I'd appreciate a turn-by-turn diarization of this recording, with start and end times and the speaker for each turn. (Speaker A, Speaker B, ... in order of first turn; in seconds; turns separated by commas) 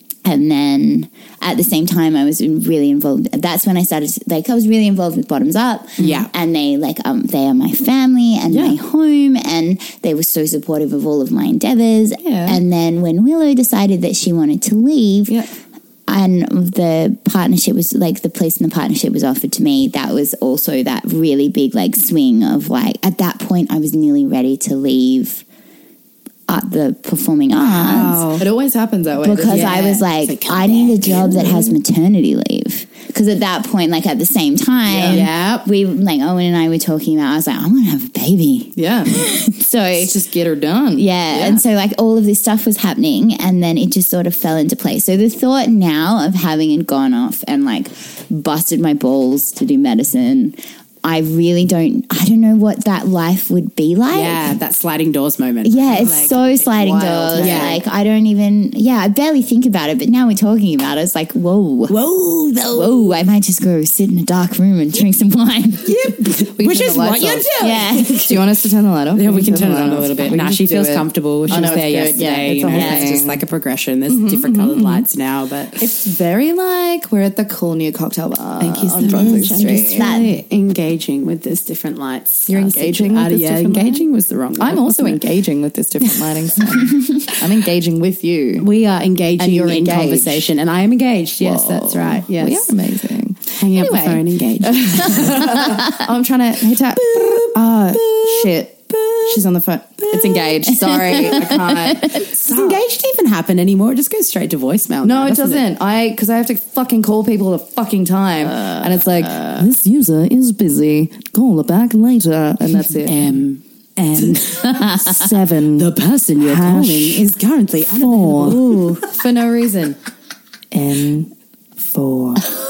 Speaker A: 0.2-15.4, Speaker B: 6.0-6.3, Speaker C: 6.0-6.3, Speaker B: 8.5-8.8, Speaker B: 12.2-12.6, Speaker A: 16.1-25.4, Speaker A: 26.5-28.3, Speaker C: 27.6-28.5, Speaker B: 28.4-30.0, Speaker A: 29.2-40.1, Speaker C: 29.5-31.7, Speaker B: 34.9-35.2, Speaker C: 35.1-35.6, Speaker B: 38.8-39.2, Speaker B: 39.9-41.6, Speaker A: 41.0-54.5, Speaker C: 54.1-56.5, Speaker A: 55.6-62.0, Speaker B: 56.7-57.8, Speaker C: 57.3-57.8, Speaker C: 61.9-63.2, Speaker A: 62.7-65.9, Speaker C: 65.8-68.4, Speaker B: 66.4-73.4, Speaker A: 67.6-68.3, Speaker C: 69.1-75.8, Speaker A: 72.2-73.1, Speaker B: 74.1-75.0, Speaker B: 75.8-80.0, Speaker C: 78.6-85.3, Speaker A: 79.6-80.3, Speaker B: 82.5-84.0, Speaker B: 84.6-88.7, Speaker C: 88.6-92.7, Speaker B: 89.4-90.5, Speaker B: 91.4-102.8, Speaker C: 93.6-95.9, Speaker C: 97.0-99.3, Speaker A: 100.7-102.2, Speaker C: 102.4-105.6, Speaker B: 105.0-113.3, Speaker C: 108.5-109.6, Speaker C: 113.0-119.0, Speaker B: 114.2-117.2, Speaker B: 117.9-120.0, Speaker B: 120.7-122.5